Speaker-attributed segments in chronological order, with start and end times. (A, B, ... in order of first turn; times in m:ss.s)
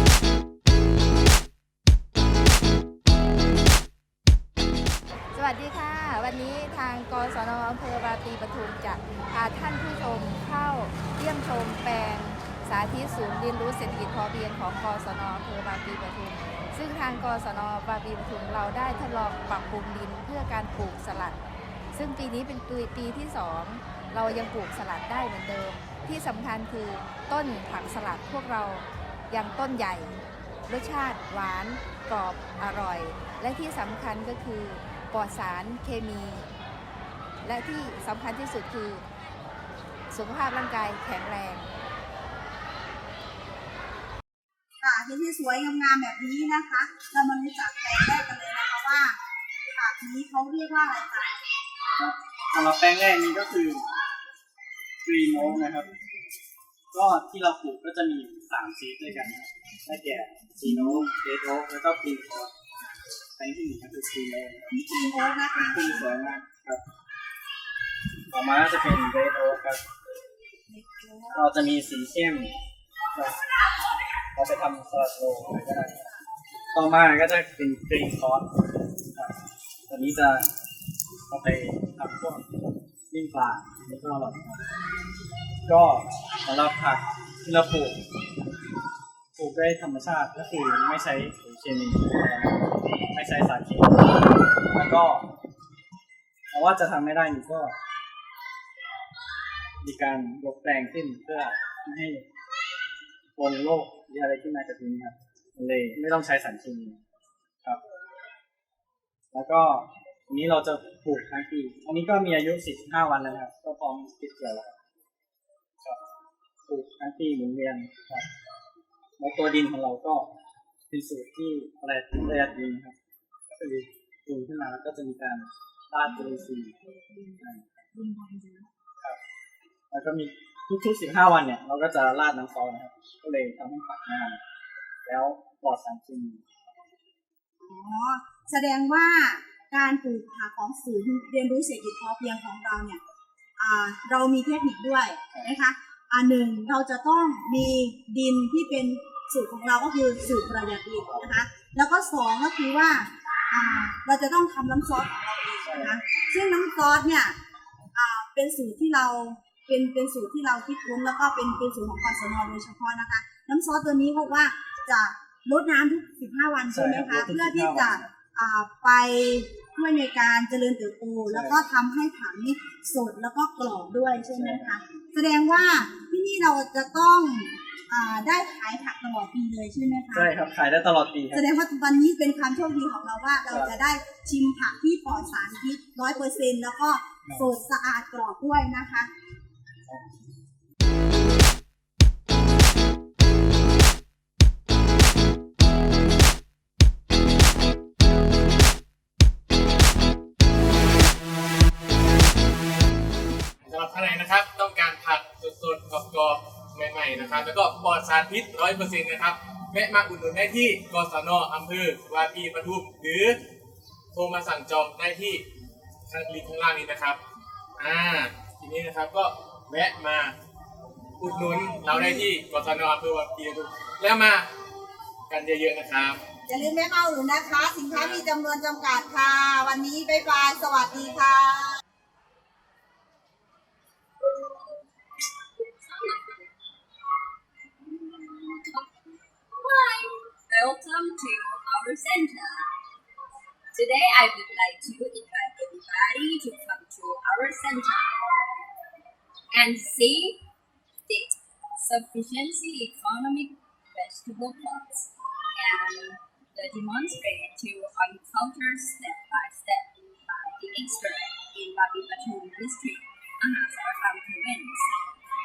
0:05.3-0:21.4 A
0:21.9-0:36.5 A
0:37.4-0:39.0 A
0:40.1-0:41.7 A
0:44.8-0:51.4 B
0:52.0-0:53.8 C
0:55.0-0:55.9 C
0:56.9-1:02.5 C
1:03.4-1:04.6 C
1:04.7-1:06.1 B
1:05.5-1:06.8 C
1:08.3-1:09.8 C
1:10.7-1:11.4 B
1:11.3-1:12.5 C
1:13.1-1:13.5 C
1:14.3-1:16.0 C
1:16.7-1:18.5 C
1:19.9-1:20.5 C
1:21.3-1:22.5 C
1:23.1-1:24.5 C
1:25.6-1:28.0 C
1:29.4-1:35.3 C
1:36.5-1:37.8 C
1:39.8-1:42.2 C
1:43.4-1:47.0 C
1:49.3-1:54.8 C
1:56.7-1:58.3 C
1:59.2-2:00.3 C
2:00.9-2:03.0 C
2:03.5-2:06.8 C
2:07.4-2:07.6 C
2:08.0-2:08.6 B
2:09.9-2:14.4 C
2:15.0-2:16.4 C
2:17.6-2:23.0 B
2:23.6-2:37.4 B
2:35.6-2:36.0 C
2:37.9-3:00.3 B
2:46.7-2:48.1 C
2:51.3-2:51.6 C
2:54.3-2:54.8 C
3:00.1-3:01.4 C
3:01.3-3:09.1 B
3:03.5-3:03.8 C
3:23.6-3:33.4 D
3:34.1-3:35.4 D
3:36.1-3:37.2 D
3:37.8-3:40.3 D
3:41.2-3:44.5 D
3:41.3-3:41.8 B
3:45.3-3:46.2 D
3:46.5-3:51.8 B
3:47.9-3:48.3 D
3:55.8-3:56.4 E
3:57.9-4:02.7 E
4:03.7-4:08.4 E
4:09.5-4:10.4 E
4:11.1-4:24.9 E